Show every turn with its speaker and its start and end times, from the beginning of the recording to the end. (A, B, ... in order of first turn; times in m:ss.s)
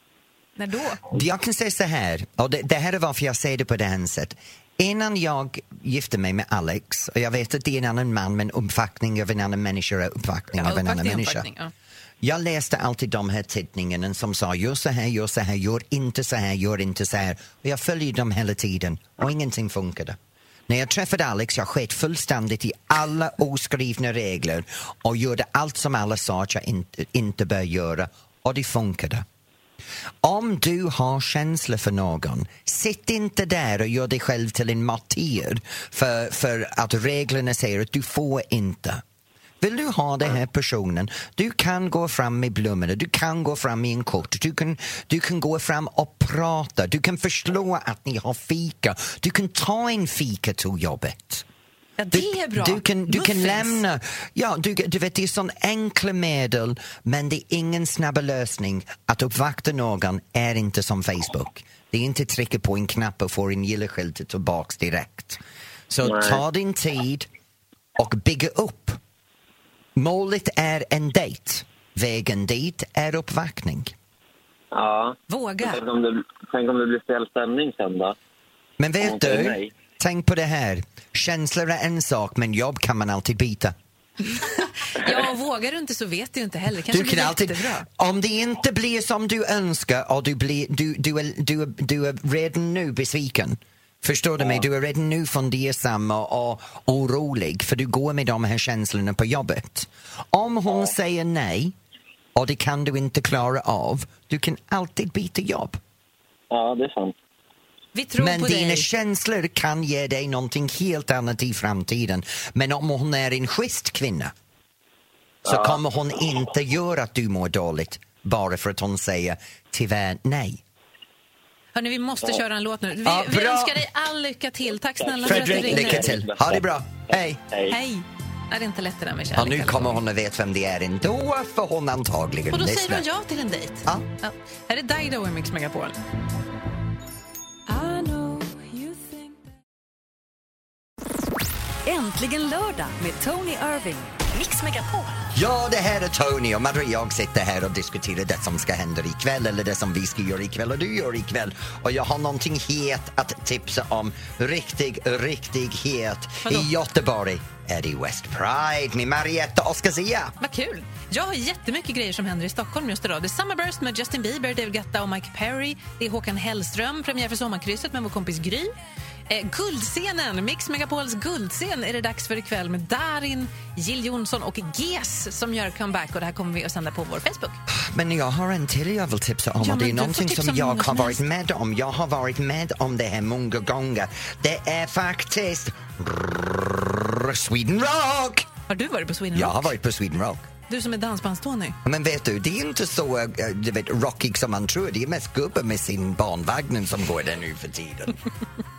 0:00.6-0:01.0 A
0:01.1-0:11.4 B
0:10.6-0:11.7 A
0:12.2-0:29.2 B
0:30.2-0:39.0 B
0:39.6-0:51.4 B
0:52.0-0:53.8 A
0:52.1-1:07.3 B
1:06.0-1:06.4 C
1:08.0-1:09.0 B
1:10.0-1:13.9 B
1:14.7-1:18.1 C
1:15.3-1:15.8 A
1:18.8-1:23.7 B
1:19.0-1:19.7 C
1:24.3-1:27.8 A
1:26.9-1:41.7 B
1:42.3-1:45.8 B
1:46.5-1:47.1 C
1:47.9-1:48.9 A
1:48.2-1:54.3 B
1:55.4-1:55.8 C
1:55.4-2:00.6 B
2:01.7-2:06.2 A
2:03.0-2:03.8 B
2:05.0-2:06.6 C
2:05.2-2:07.4 B
2:07.5-2:07.8 C
2:07.7-2:10.0 A
2:09.3-2:13.1 B
2:12.5-2:16.0 A
2:17.7-2:19.4 D
2:21.8-2:25.1 D
2:25.3-2:40.3 B
2:36.4-2:36.7 A
2:40.4-2:48.7 A
2:49.3-2:57.6 A
2:57.7-3:08.5 B
2:59.6-3:01.2 A
3:08.7-3:09.7 A
3:09.3-3:10.5 B
3:10.7-3:11.8 A
3:11.8-3:18.2 B